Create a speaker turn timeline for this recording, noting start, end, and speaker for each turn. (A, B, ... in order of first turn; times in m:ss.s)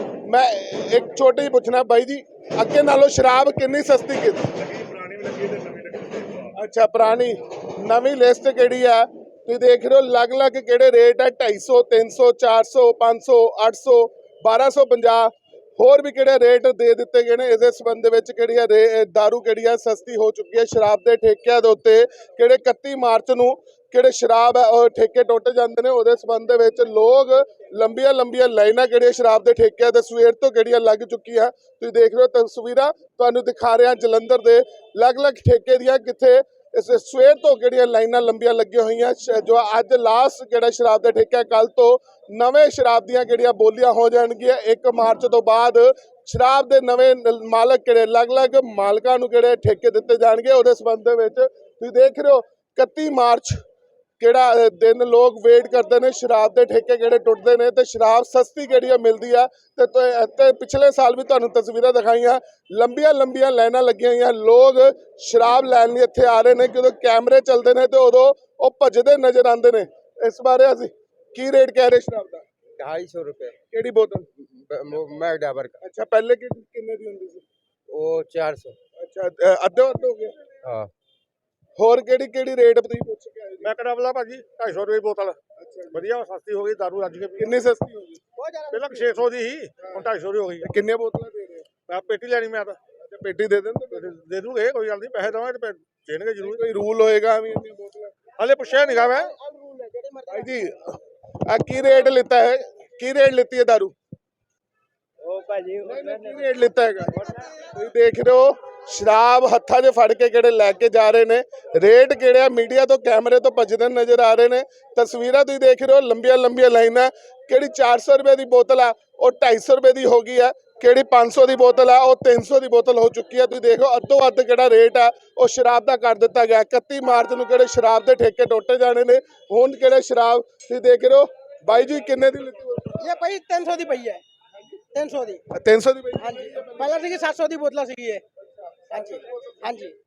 0:00.2-0:04.5 A
0:04.6-0:06.5 B
0:06.5-0:53.6 A
0:54.2-1:12.4 A
1:12.8-1:13.6 C
1:13.7-1:14.3 A
1:14.5-1:15.8 C
1:15.8-1:17.4 A
1:17.9-1:18.8 C
1:19.0-1:20.4 A
1:20.6-1:20.9 C
1:21.8-1:23.7 A
1:23.6-1:25.4 B
1:25.6-1:26.0 A
1:25.9-1:27.6 B
1:27.4-1:28.2 A
1:28.4-1:29.2 D
1:28.7-1:30.7 B
1:30.6-1:31.7 A
1:31.9-1:32.8 B
1:33.0-1:34.1 A
1:33.9-1:36.6 B
1:36.4-1:38.1 A
1:38.4-1:39.4 B
1:38.7-1:40.6 D
1:40.3-1:43.9 A
1:45.2-1:46.1 C
1:45.8-2:13.0 A
2:13.0-2:14.2 D
2:14.9-2:15.4 D
2:15.5-2:16.9 A
2:16.2-2:18.2 D
2:18.9-2:19.9 D